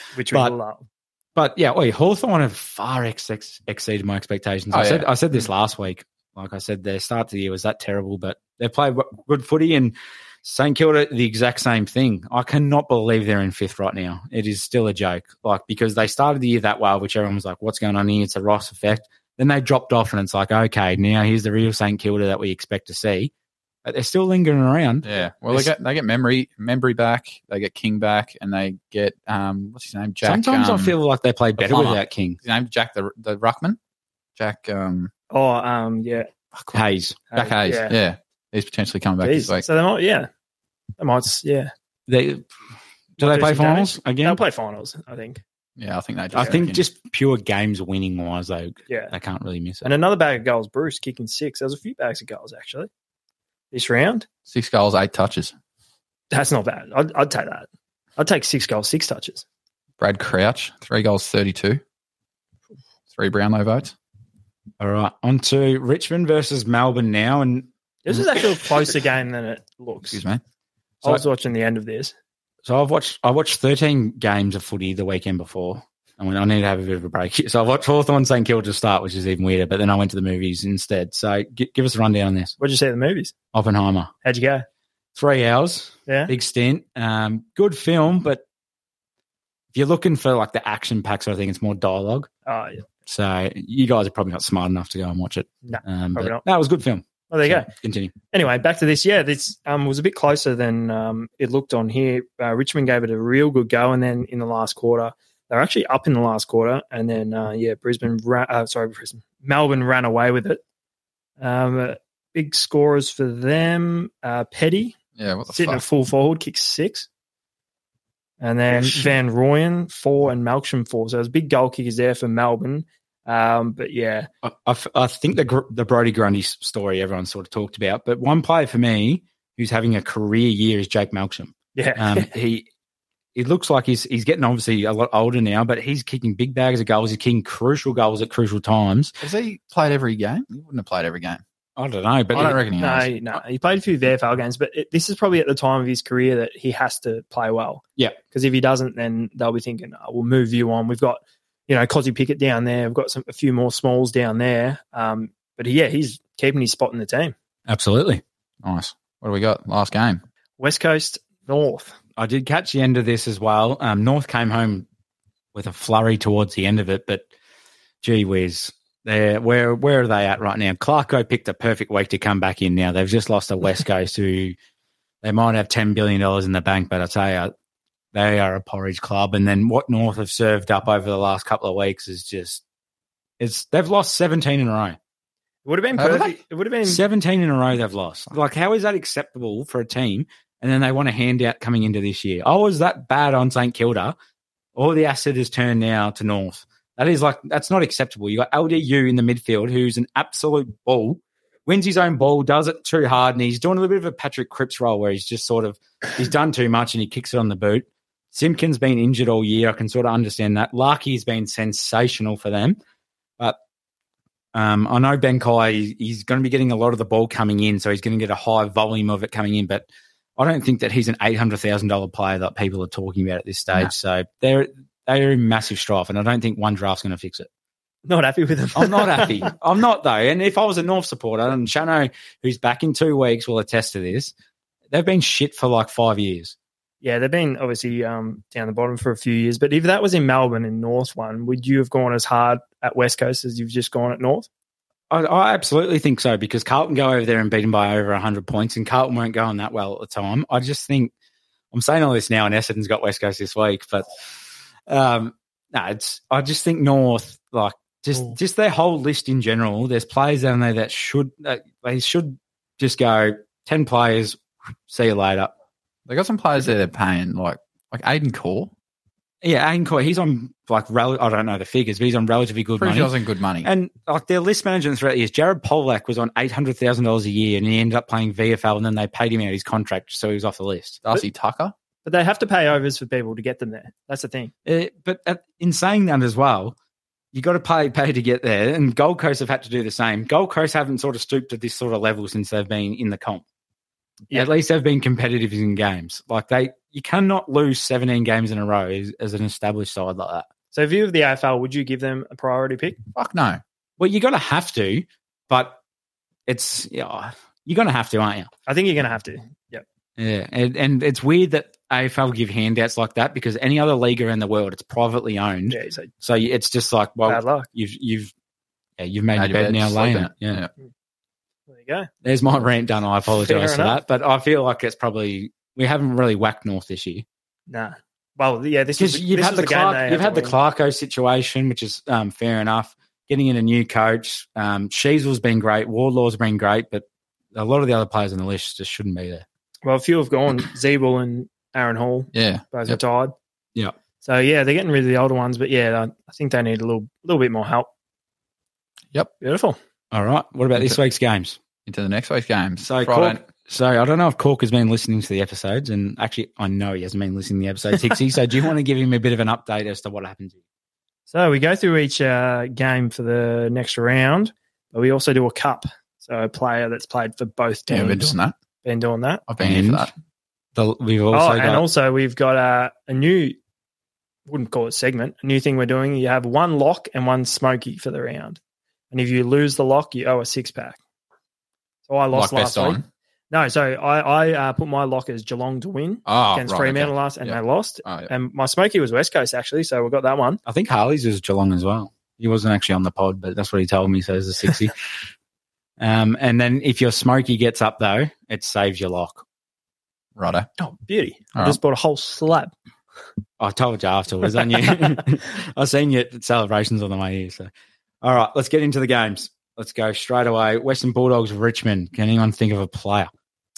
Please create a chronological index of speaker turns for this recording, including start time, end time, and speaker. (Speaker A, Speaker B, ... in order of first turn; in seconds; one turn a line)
Speaker A: 0.1-0.8
Speaker B: 1.4-23.3
Speaker C: 4.7-5.1
Speaker B: 23.8-25.7
Speaker C: 25.0-30.9
Speaker B: 30.2-32.4
Speaker C: 31.6-33.8
Speaker C: 34.4-35.1
Speaker A: 35.3-36.3
Speaker C: 36.5-36.8
Speaker B: 36.7-37.2
Speaker A: 37.3-38.0
Speaker C: 37.4-39.6
Speaker A: 39.2-40.3
Speaker A: 41.0-41.7
Speaker B: 42.1-42.5
Speaker B: 43.2-44.4
Speaker A: 43.2-45.4
Speaker C: 45.8-46.8
Speaker B: 46.3-49.9
Speaker A: 49.8-52.9
Speaker A: 53.7-54.3
Speaker C: 54.5-55.5
Speaker A: 56.3-59.4
Speaker C: 60.0-61.8
Speaker C: 63.1-63.9
Speaker B: 64.8-67.7
Speaker A: 68.0-70.2
Speaker C: 70.1-70.4
Speaker A: 71.0-72.1
Speaker B: 72.6-82.5
Speaker A: 82.6-83.3
Speaker B: 83.5-84.1
Speaker A: 84.2-84.6
Speaker B: 85.1-88.4
Speaker A: 86.1-86.3
Speaker B: 89.7-92.3
Speaker A: 92.5-92.8
Speaker B: 93.1-98.1
Speaker A: 95.6-96.4
Speaker A: 97.3-97.7
Speaker A: 98.3-110.6
Speaker A: 111.4-115.0
Speaker C: 115.2-115.8
Speaker A: 115.5-117.1
Speaker A: 118.4-124.3
Speaker B: 124.4-132.7
Speaker A: 131.7-132.3
Speaker B: 133.3-139.1
Speaker C: 139.2-141.4
Speaker B: 141.8-142.6
Speaker C: 142.3-143.1
Speaker A: 142.3-157.3
Speaker B: 157.7-158.2
Speaker C: 158.6-160.2
Speaker A: 160.6-161.9
Speaker B: 162.2-164.9
Speaker B: 165.5-167.2
Speaker B: 168.0-174.6
Speaker B: 175.2-177.5
Speaker B: 178.1-182.6
Speaker B: 183.4-185.0
Speaker A: 185.6-187.0
Speaker C: 186.0-186.3
Speaker B: 186.8-194.2
Speaker B: 194.8-212.8
Speaker B: 214.5-219.8
Speaker B: 220.4-227.5
Speaker A: 228.0-229.5
Speaker B: 228.7-234.3
Speaker B: 234.9-236.5
Speaker A: 237.0-244.5
Speaker B: 245.1-251.1
Speaker B: 251.7-254.1
Speaker B: 254.9-265.5
Speaker C: 266.1-268.7
Speaker B: 269.4-273.1
Speaker C: 272.8-273.7
Speaker B: 273.6-281.0
Speaker C: 281.0-281.7
Speaker A: 282.0-284.5
Speaker B: 284.6-286.8
Speaker B: 287.3-293.4
Speaker B: 294.3-300.5
Speaker A: 300.7-303.0
Speaker C: 303.1-303.6
Speaker B: 304.0-305.8
Speaker B: 306.5-308.5
Speaker A: 308.7-309.8
Speaker B: 310.2-318.3
Speaker A: 315.7-316.1
Speaker A: 317.2-317.7
Speaker B: 319.0-320.6
Speaker C: 319.4-320.7
Speaker A: 321.7-322.1
Speaker B: 322.2-327.2
Speaker A: 323.4-324.0
Speaker A: 327.7-330.6
Speaker B: 329.0-339.4
Speaker A: 339.8-343.3
Speaker C: 342.3-343.0
Speaker A: 344.2-347.9
Speaker A: 349.4-349.8
Speaker B: 350.1-351.6
Speaker C: 351.9-353.4
Speaker B: 352.8-360.6
Speaker A: 361.3-369.4
Speaker C: 367.9-368.5
Speaker C: 369.5-370.1
Speaker B: 369.6-370.1
Speaker B: 370.7-371.8
Speaker A: 371.3-373.6
Speaker A: 374.5-378.6
Speaker A: 379.1-381.0
Speaker A: 382.1-383.0
Speaker C: 382.3-383.1
Speaker A: 383.5-390.6
Speaker C: 386.2-388.3
Speaker B: 390.6-394.9
Speaker B: 396.0-399.4
Speaker C: 400.4-400.7
Speaker A: 400.8-402.7
Speaker B: 403.6-407.7
Speaker B: 408.2-413.3